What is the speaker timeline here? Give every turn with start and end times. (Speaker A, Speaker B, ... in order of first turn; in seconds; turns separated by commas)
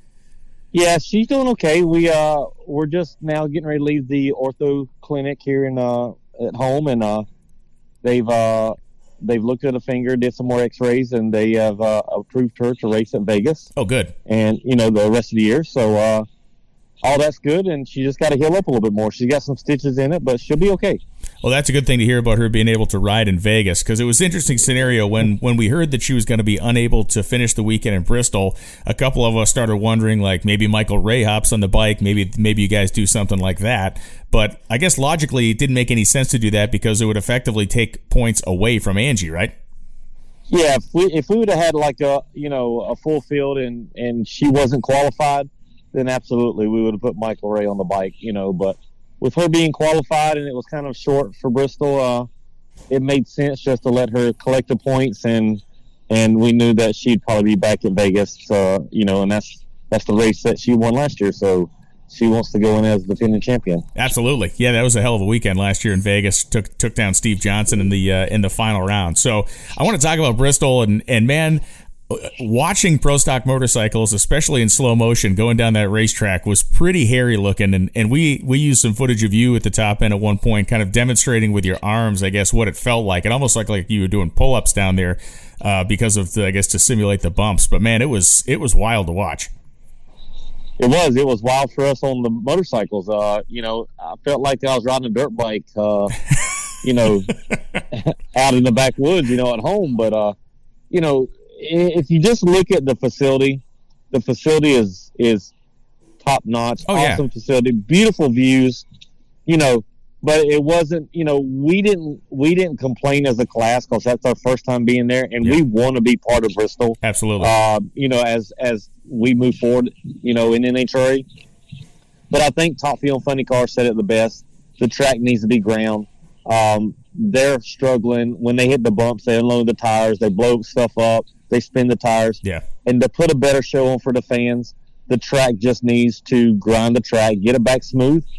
Speaker A: 0.7-7.2, Speaker A: 8.0-13.7, Speaker B: 13.8-14.1, Speaker A: 14.3-16.2, Speaker A: 17.0-21.0, Speaker B: 21.4-39.5, Speaker A: 40.5-52.3, Speaker A: 52.9-63.8, Speaker B: 64.0-89.5, Speaker A: 90.8-96.2, Speaker A: 96.8-97.3, Speaker A: 97.9-100.3, Speaker A: 100.9-105.5, Speaker A: 106.2-108.8, Speaker B: 106.9-107.2, Speaker A: 109.5-121.2, Speaker B: 117.0-117.5, Speaker A: 122.3-138.2